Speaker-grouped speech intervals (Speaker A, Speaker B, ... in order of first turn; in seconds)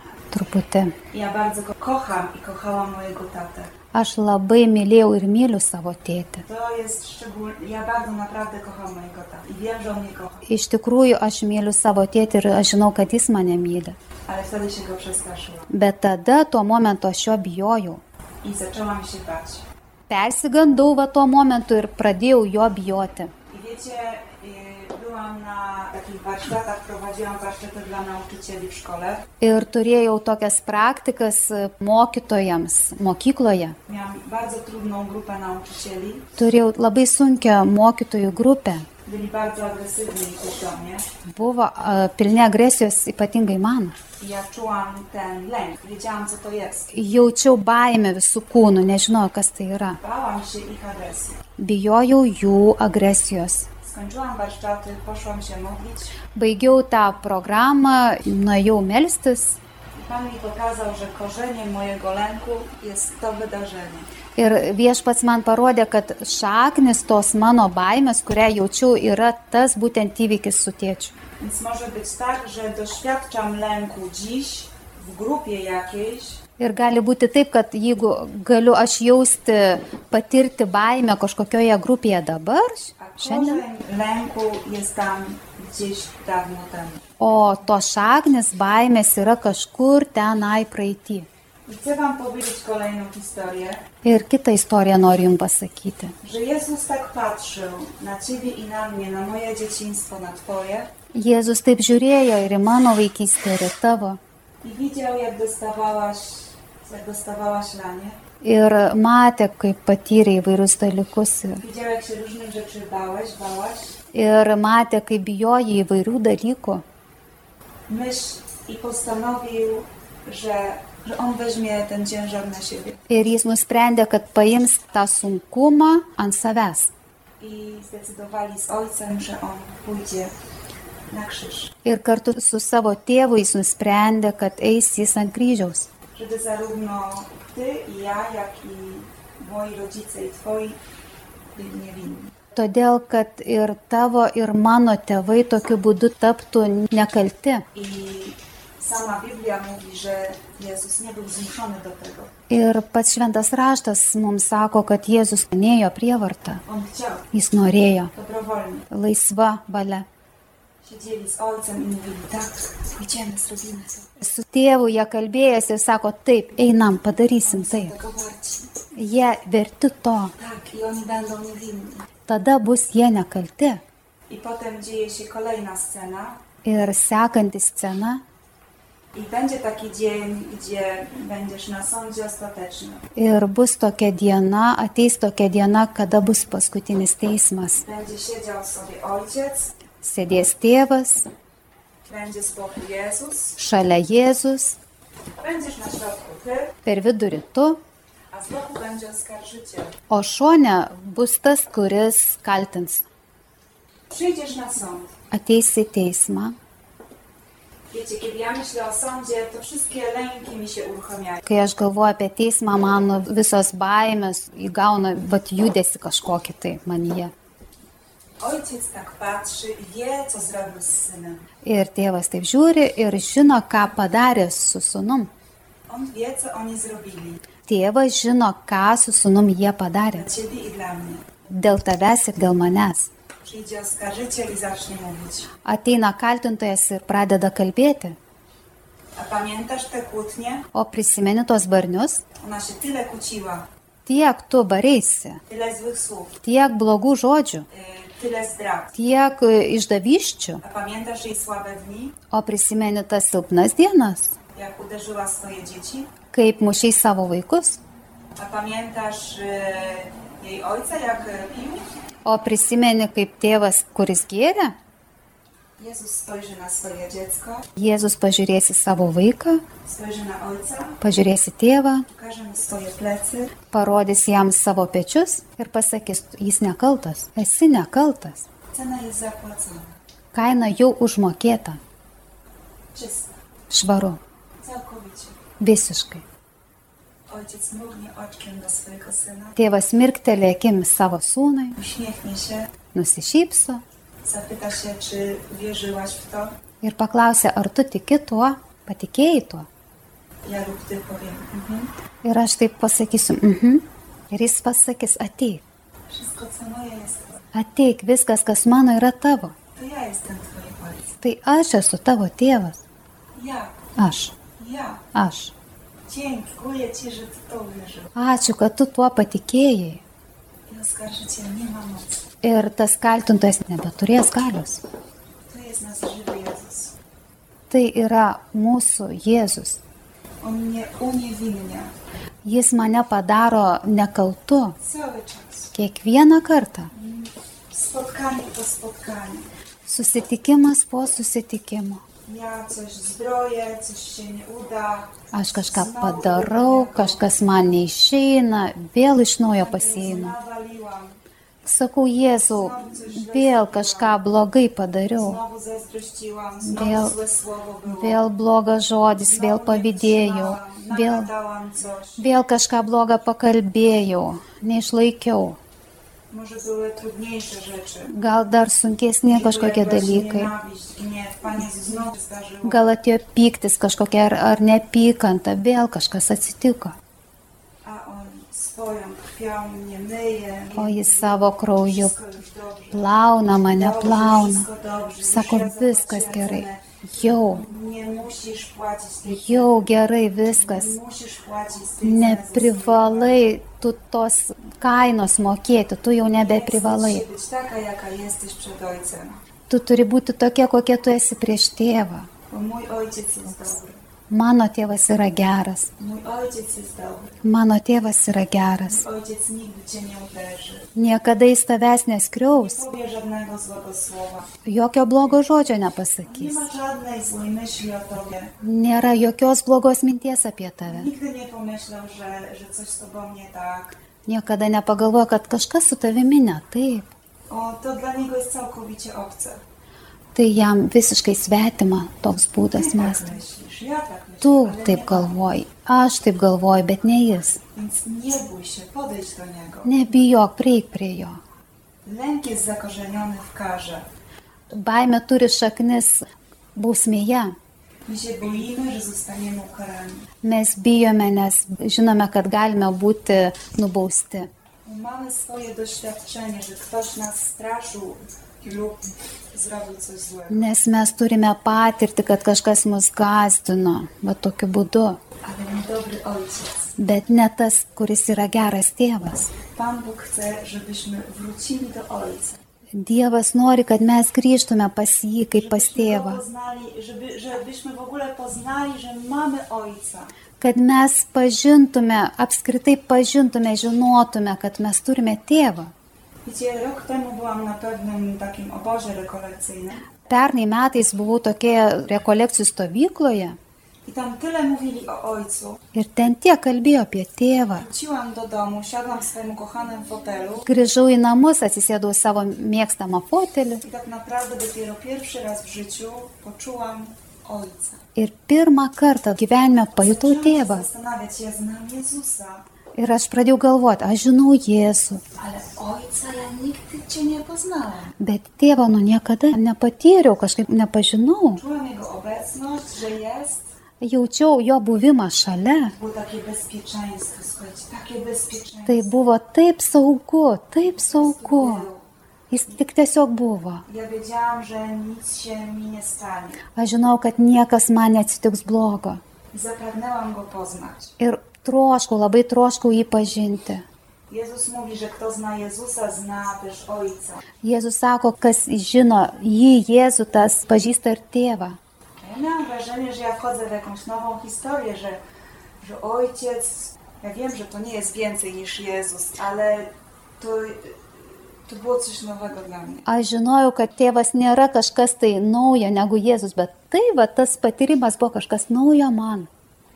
Speaker A: 0.3-0.9, 3.9-6.5, 10.5-14.0, 15.7-18.0, 20.1-23.3, 29.4-33.8, 36.4-38.9, 41.3-44.0, 46.9-50.0, 51.6-53.7, 56.3-59.6, 64.4-71.1, 76.6-83.6, 87.2-91.3, 94.0-96.2, 101.1-104.2, 108.4-111.6, 114.1-116.8, 123.1-126.9, 131.8-135.9, 142.6-147.7, 152.5-156.6, 157.3-158.1, 158.9-160.1, 164.2-167.9, 168.9-170.3, 172.3-173.8, 176.7-178.2, 183.2-187.8, 190.0-191.3, 193.6-194.8, 196.8-197.8, 200.1-203.1, 205.3-206.6, 211.5-217.3, 221.6-225.3, 227.7-230.3, 231.5-233.1, 235.7-238.2, 240.7-242.2, 244.1-245.4, 246.4-247.7, 248.9-250.6, 252.3-254.3, 256.3-257.8, 262.2-264.8, 267.8-269.6, 271.0-272.1, 273.7-278.5, 280.3-281.8, 283.7-284.2, 285.6-286.2, 289.6-291.8, 292.9-293.8, 296.8-299.7, 302.2-305.6, 307.5-309.6, 311.2-312.8, 314.0-314.3, 315.1-315.5, 318.1-320.0, 322.4-324.8, 327.7-329.8, 332.4-334.8, 335.7-336.9, 339.9-342.0, 345.3-350.4, 351.6-355.4, 356.6-357.2, 357.9-361.3, 362.2-365.6, 368.1-370.5, 372.6-377.0, 380.8-382.1, 382.9-384.7, 385.2-387.6, 389.2-391.0, 392.0-397.2, 399.7-402.3, 404.3-405.9, 407.4-409.0, 410.9-412.9, 414.6-416.7, 418.6-421.1, 424.3-427.1, 430.4-433.4, 434.4-437.6, 439.9-441.4, 444.7-446.2, 446.8-447.6, 450.4-454.5, 460.5-465.2, 467.0-469.5, 472.9-476.4, 480.6-485.9, 490.2-493.6, 495.9-497.9, 500.7-503.8, 508.2-510.9, 513.0-515.2, 518.2-521.6, 524.0-525.9, 528.9-531.9, 532.5-533.8, 536.8-539.2, 541.2-543.9, 547.6-551.8, 563.1-569.5
Speaker B: 1.1-3.7, 6.5-10.5, 14.3-15.7, 18.4-19.6, 23.5-29.2, 33.9-36.3, 39.0-41.1, 44.2-46.9, 50.0-51.4, 53.8-56.2, 60.0-64.1, 71.4-76.4, 83.0-87.0, 91.7-93.8, 96.2-100.9, 104.6-108.2, 111.6-114.0, 117.9-123.0, 127.4-130.3, 131.1-131.7, 136.2-140.8, 141.6-142.3, 147.7-152.3, 156.7-157.3, 158.1-158.9, 160.8-164.2, 167.4-168.7, 170.4-172.1, 174.3-176.4, 179.1-183.0, 187.8-189.7, 192.1-193.6, 195.4-196.8, 198.3-200.0, 204.1-205.1, 207.9-211.5, 218.4-221.5, 225.9-227.4, 230.1-231.2, 233.4-235.5, 239.2-240.7, 242.4-243.7, 245.5-246.4, 247.7-249.0, 250.6-252.2, 254.6-256.1, 258.4-261.8, 265.8-267.7, 269.8-271.0, 272.1-273.5, 278.7-280.0, 282.9-283.4, 284.6-285.4, 287.3-289.6, 291.8-292.7, 294.2-296.6, 300.4-301.9, 306.1-307.5, 309.8-311.1, 313.4-313.9, 314.4-315.1, 316.1-318.1, 320.7-322.2, 325.5-327.0, 330.4-331.9, 334.8-335.7, 336.9-339.5, 342.3-347.4, 349.6-351.2, 352.5-354.2, 355.2-358.2, 359.2-362.2, 366.3-368.1, 369.3-372.9, 377.9-389.9, 390.5-393.5, 396.3-399.4, 402.5-404.0, 406.0-407.4, 408.9-410.9, 412.5-414.5, 416.2-418.5, 420.9-424.0, 427.5-429.6, 432.7-435.4, 437.8-439.9, 442.1-444.1, 448.1-450.3, 454.9-460.6, 465.4-467.0, 469.8-472.6, 475.6-480.3, 486.4-490.1, 494.1-495.8, 497.8-500.7, 503.8-508.0, 510.0-512.6, 515.4-518.2, 521.6-523.7, 525.9-529.1, 530.9-532.1, 533.9-536.6, 539.5-541.1, 544.3-547.4, 552.2-555.2, 555.8-563.1